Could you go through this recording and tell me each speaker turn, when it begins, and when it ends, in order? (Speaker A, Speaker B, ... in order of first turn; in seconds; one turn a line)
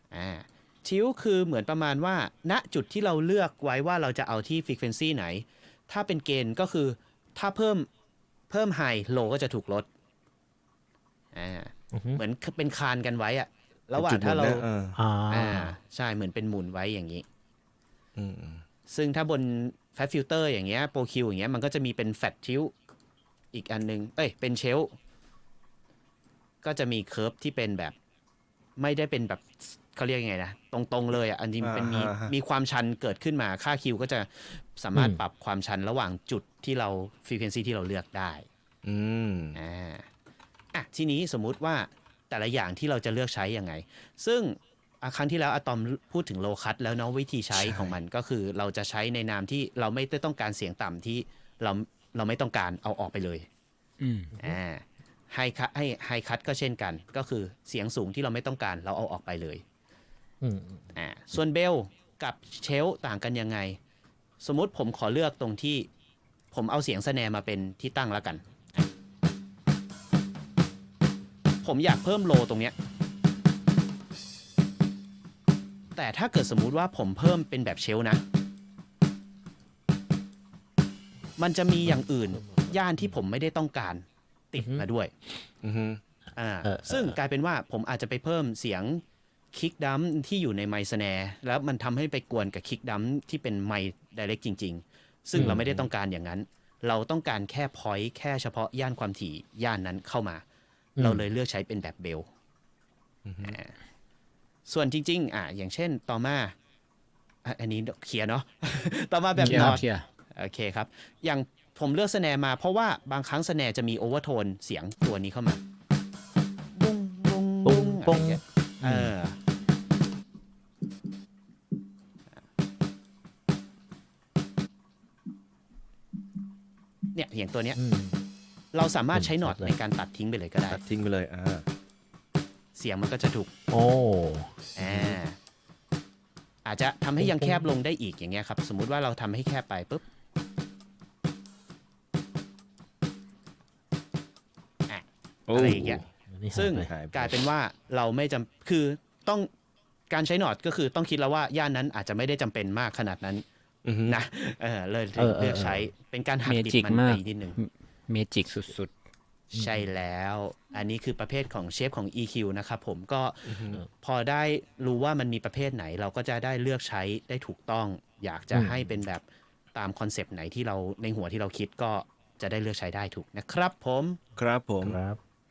Speaker A: 0.1-7.9
Speaker A: 8.5-9.9
Speaker A: 11.3-14.7
Speaker B: 11.9-12.2
Speaker C: 14.0-15.0
Speaker B: 15.0-15.8
Speaker A: 15.3-17.2
Speaker C: 18.2-18.6
Speaker A: 18.9-22.8
Speaker A: 23.5-24.9
Speaker A: 26.6-27.9
Speaker A: 28.8-38.5
Speaker C: 31.6-32.3
Speaker B: 34.9-35.2
Speaker C: 38.8-39.6
Speaker A: 39.5-40.1
Speaker A: 40.7-53.5
Speaker C: 47.5-48.0
Speaker D: 54.0-54.3
Speaker A: 54.4-59.6
Speaker B: 60.4-60.8
Speaker A: 60.9-63.8
Speaker A: 64.4-65.9
Speaker A: 66.5-68.9
Speaker A: 71.6-72.8
Speaker A: 76.0-78.2
Speaker A: 81.4-85.1
Speaker B: 81.8-83.1
Speaker B: 84.6-84.9
Speaker C: 85.6-86.0
Speaker A: 86.3-89.0
Speaker B: 86.6-87.2
Speaker A: 89.5-100.4
Speaker B: 95.3-95.6
Speaker C: 95.3-95.9
Speaker B: 101.0-101.3
Speaker A: 101.0-102.3
Speaker C: 103.2-103.6
Speaker A: 103.4-103.7
Speaker A: 104.7-106.5
Speaker A: 107.5-115.6
Speaker B: 109.4-109.8
Speaker D: 109.4-110.0
Speaker A: 116.7-119.4
Speaker B: 117.7-119.2
Speaker A: 127.1-127.8
Speaker B: 127.8-128.2
Speaker A: 128.7-130.8
Speaker B: 129.1-129.7
Speaker C: 130.7-131.7
Speaker A: 132.8-133.5
Speaker B: 133.7-135.2
Speaker A: 134.8-135.4
Speaker A: 136.7-140.0
Speaker B: 137.2-137.7
Speaker A: 144.9-149.5
Speaker C: 145.5-146.1
Speaker B: 146.3-146.9
Speaker C: 146.8-147.3
Speaker A: 150.1-153.4
Speaker C: 153.8-154.2
Speaker A: 154.1-157.6
Speaker B: 155.2-155.9
Speaker D: 156.4-158.9
Speaker B: 159.5-159.9
Speaker A: 159.5-174.2
Speaker C: 163.5-163.8
Speaker B: 168.5-169.0
Speaker C: 174.3-175.0
Speaker B: 174.8-175.2